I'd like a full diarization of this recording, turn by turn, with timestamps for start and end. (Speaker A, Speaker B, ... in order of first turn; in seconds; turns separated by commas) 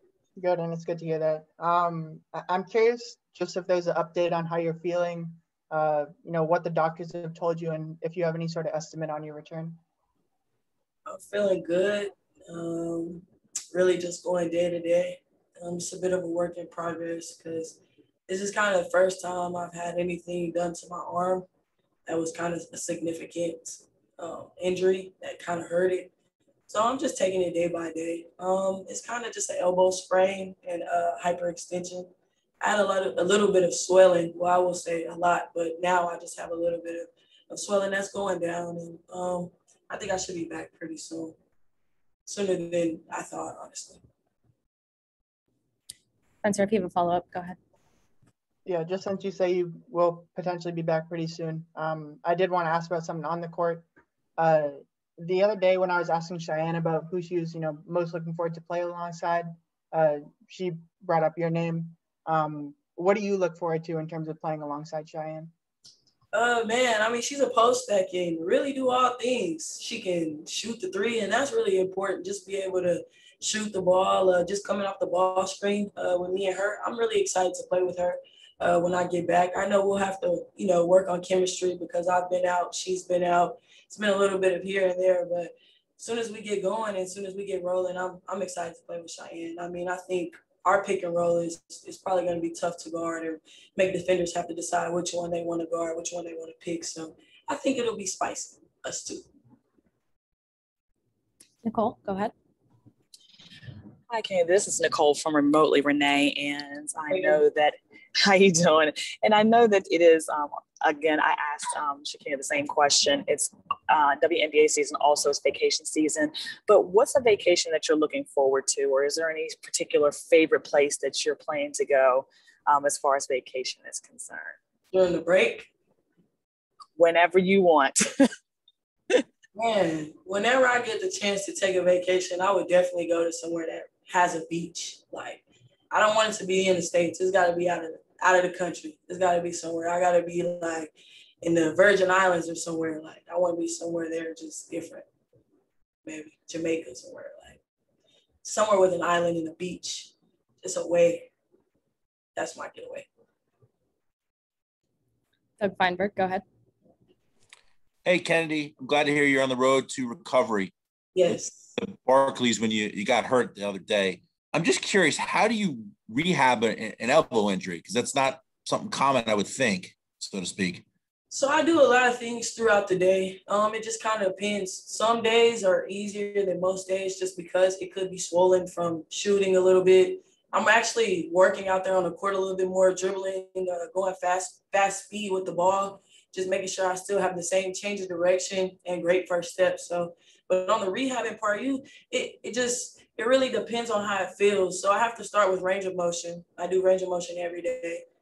Speaker A: 0.4-9.8, Speaker B: 11.1-13.2, Speaker B: 13.7-17.8, Speaker B: 18.3-21.3, Speaker B: 22.1-23.7, Speaker B: 24.2-26.0, Speaker B: 26.7-32.0, Speaker B: 32.6-41.3, Speaker B: 42.2-43.8, Speaker C: 46.4-47.6, Speaker A: 48.6-53.9, Speaker A: 54.4-65.5, Speaker B: 66.3-78.1, Speaker B: 78.6-93.2, Speaker B: 93.8-96.7, Speaker B: 97.5-99.1, Speaker C: 101.6-102.3, Speaker D: 104.1-124.5, Speaker B: 124.9-125.4, Speaker D: 127.0-128.3, Speaker B: 129.7-135.4, Speaker B: 136.2-140.9, Speaker B: 141.4-145.0, Speaker B: 146.1-147.5, Speaker B: 148.4-149.6, Speaker B: 150.6-151.0, Speaker B: 152.4-152.8, Speaker C: 155.6-156.4, Speaker E: 158.0-170.8, Speaker B: 173.7-174.4, Speaker B: 177.8-179.6, Speaker B: 180.5-197.8